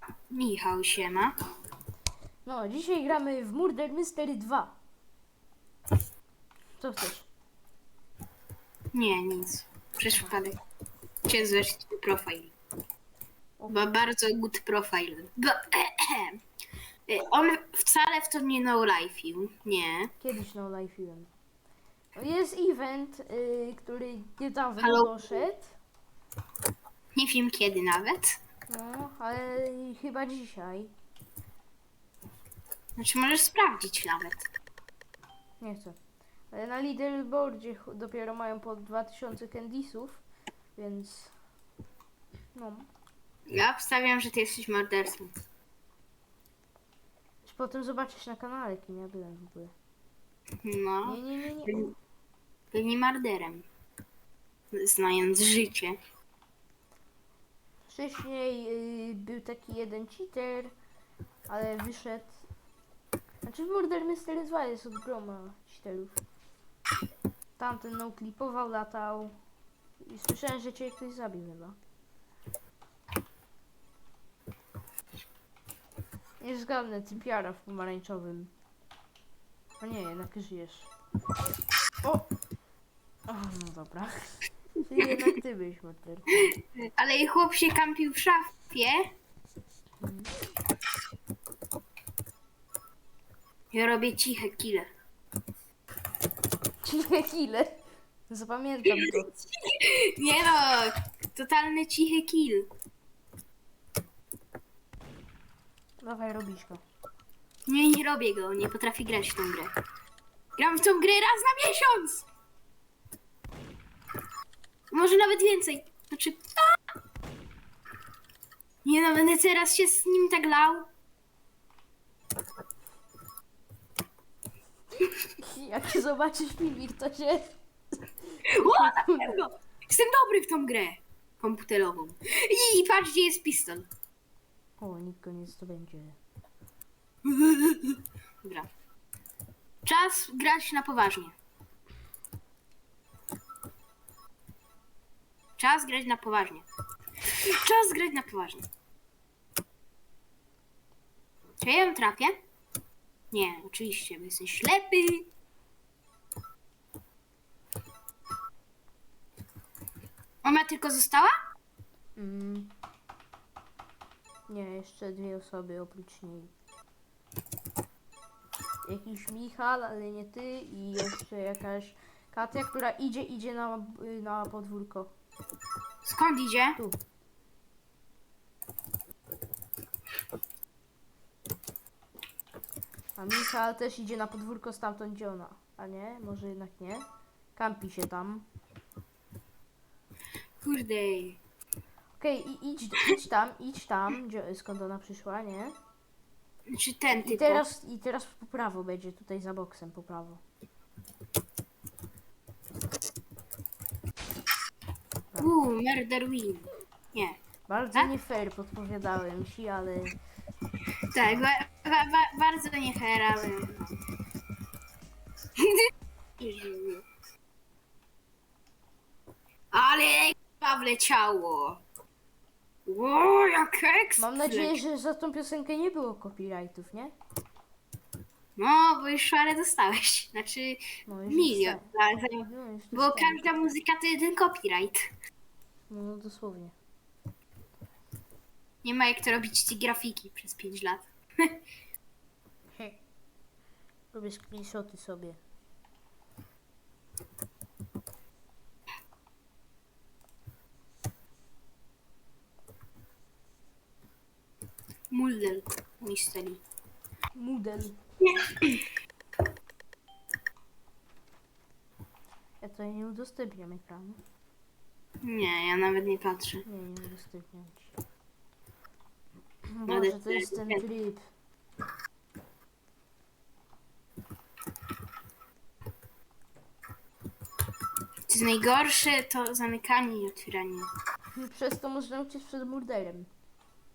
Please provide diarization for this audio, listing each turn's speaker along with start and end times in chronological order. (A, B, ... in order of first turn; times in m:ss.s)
0:00.3-0:01.3 A
0:02.4-0:04.8 B
0:06.8-0:07.3 B
0:08.9-0:10.6 A
0:10.1-0:10.3 B
0:11.2-0:12.5 A
0:13.6-0:13.9 B
0:13.7-0:16.4 A
0:17.1-0:20.1 A
0:20.2-0:21.3 B
0:22.2-0:25.8 B
0:24.8-0:25.4 A
0:27.1-0:28.4 A
0:28.7-0:30.9 B
0:33.0-0:34.5 A
0:35.6-0:36.0 B
0:36.5-0:40.2 B
0:40.8-0:41.3 B
0:42.5-0:42.9 B
0:43.5-0:45.3 A
0:47.4-0:49.7 B
0:50.6-0:51.9 A
0:51.0-0:51.8 B
0:52.7-0:53.7 A
0:54.7-0:56.0 A
0:57.9-1:00.7 B
1:01.5-1:02.4 B
1:03.4-1:06.2 B
1:07.6-1:09.3 B
1:10.0-1:11.8 B
1:16.4-1:18.5 B
1:19.8-1:20.9 B
1:22.0-1:22.3 B
1:23.3-1:26.3 B
1:25.0-1:25.2 A
1:26.4-1:29.1 A
1:30.0-1:30.3 B
1:33.7-1:34.9 A
1:36.8-1:39.3 B
1:38.9-1:42.7 A
1:46.0-1:46.8 B
1:47.6-1:49.7 A
1:50.6-1:52.2 A
1:54.9-1:56.5 A
1:58.8-2:00.9 A
2:05.4-2:07.5 B
2:08.5-2:13.8 A
2:08.6-2:09.4 B
2:14.8-2:16.2 B
2:17.2-2:18.7 A
2:19.8-2:21.4 A
2:25.6-2:26.6 A
2:27.2-2:28.7 A
2:31.6-2:32.4 A
2:33.3-2:35.3 A
2:40.4-2:41.3 A
2:42.2-2:42.7 B
2:44.5-2:46.5 B
2:48.8-2:55.1 B
2:56.0-2:56.8 A
3:03.2-3:08.4 B
3:10.6-3:11.4 A
3:12.2-3:15.8 B
3:16.7-3:17.6 A
3:17.2-3:20.4 B
3:25.4-3:27.4 A
3:27.7-3:30.2 B
3:31.1-3:34.0 A
3:35.6-3:37.0 A
3:39.7-3:41.8 A
3:42.8-3:44.8 A
3:44.2-3:47.1 B
3:48.6-3:55.0 A
3:51.1-3:53.5 B
3:55.9-3:56.7 B
3:58.8-4:01.6 A
4:04.1-4:05.4 B
4:15.1-4:16.6 A
4:17.3-4:18.0 B
4:18.2-4:18.8 A
4:22.6-4:24.2 B
4:25.2-4:26.6 A
4:26.6-4:27.9 B
4:29.7-4:31.2 B
4:29.9-4:30.8 A
4:38.3-4:40.9 A
4:41.4-4:43.3 B